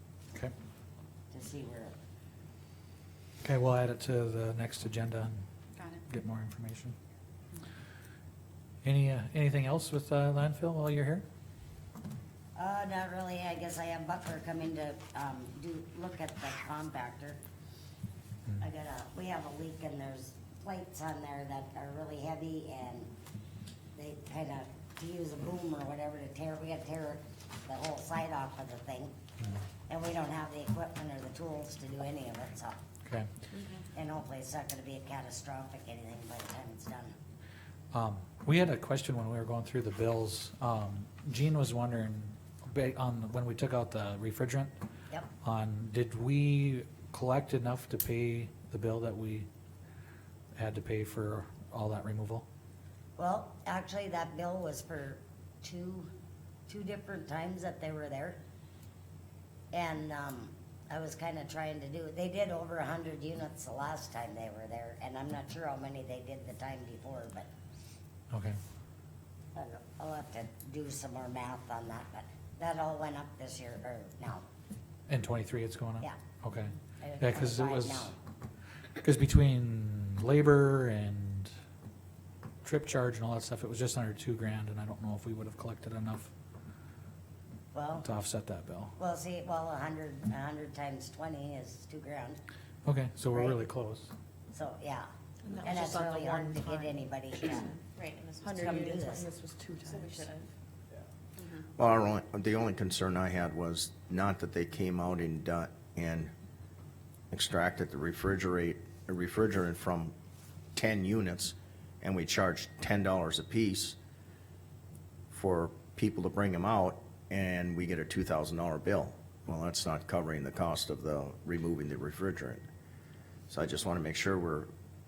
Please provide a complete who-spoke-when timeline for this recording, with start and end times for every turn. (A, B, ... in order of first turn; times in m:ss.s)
0:01.3-0:02.0 A
0:03.4-0:05.4 B
0:05.8-0:06.0 C
0:06.1-0:07.0 B
0:08.8-0:11.2 B
0:12.6-0:17.4 A
0:18.6-0:23.1 A
0:24.0-0:29.2 A
0:29.9-0:32.8 A
0:33.5-0:33.8 C
0:33.9-0:37.2 A
0:37.9-0:44.7 B
0:45.4-0:49.5 B
0:50.6-0:52.4 B
0:53.2-0:56.1 A
0:56.7-0:58.4 A
0:59.7-1:07.5 A
1:08.3-1:08.6 B
1:09.6-1:14.4 A
1:15.1-1:18.1 B
1:17.0-1:18.1 A
1:19.0-1:21.5 B
1:22.6-1:26.3 B
1:27.7-1:28.1 A
1:27.9-1:29.0 B
1:29.0-1:32.4 A
1:32.9-1:34.1 B
1:33.3-1:33.6 A
1:34.5-1:35.1 A
1:35.5-1:37.0 D
1:35.6-1:36.5 C
1:35.6-1:37.8 A
1:38.0-1:39.0 C
1:38.4-1:40.5 D
1:38.6-1:39.3 A
1:39.8-1:40.3 C
1:41.4-1:41.7 C
1:41.8-1:46.3 E
1:47.3-1:50.1 E
1:50.8-1:54.0 E
1:55.3-2:02.6 E
2:03.5-2:04.7 E